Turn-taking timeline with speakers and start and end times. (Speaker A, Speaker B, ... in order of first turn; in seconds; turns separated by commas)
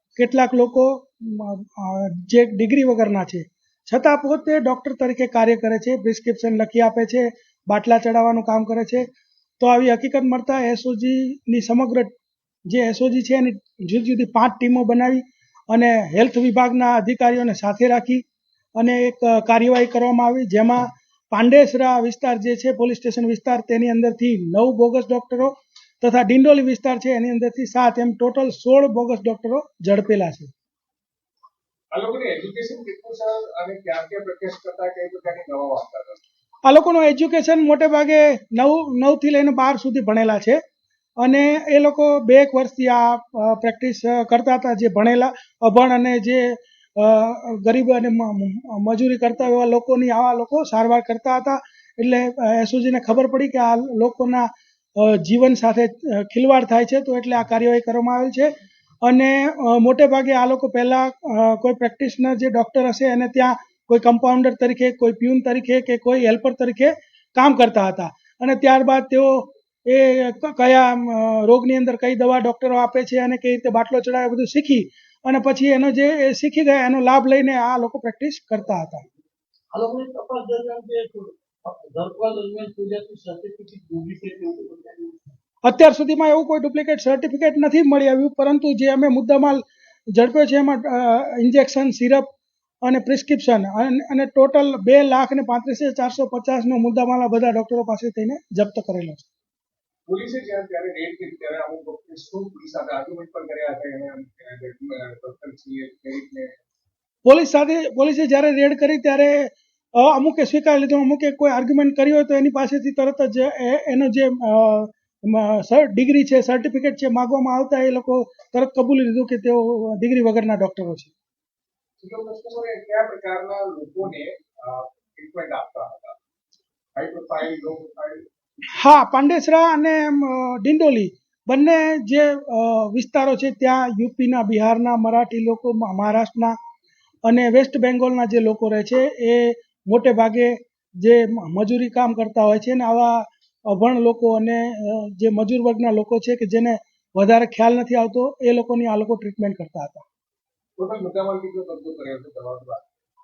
Speaker A: 0.2-9.1, Speaker A: 9.6-12.1, Speaker A: 12.7-18.2, Speaker A: 18.8-30.5, Speaker B: 31.9-36.2, Speaker A: 36.6-40.6, Speaker A: 41.2-58.5, Speaker A: 59.0-79.0, Speaker C: 79.7-85.3, Speaker A: 85.6-89.6, Speaker A: 90.1-92.2, Speaker A: 92.8-99.3, Speaker B: 100.1-106.5, Speaker A: 107.3-121.1, Speaker B: 122.0-126.2, Speaker B: 127.0-128.3, Speaker A: 128.8-136.6, Speaker A: 137.3-150.0, Speaker B: 150.8-152.8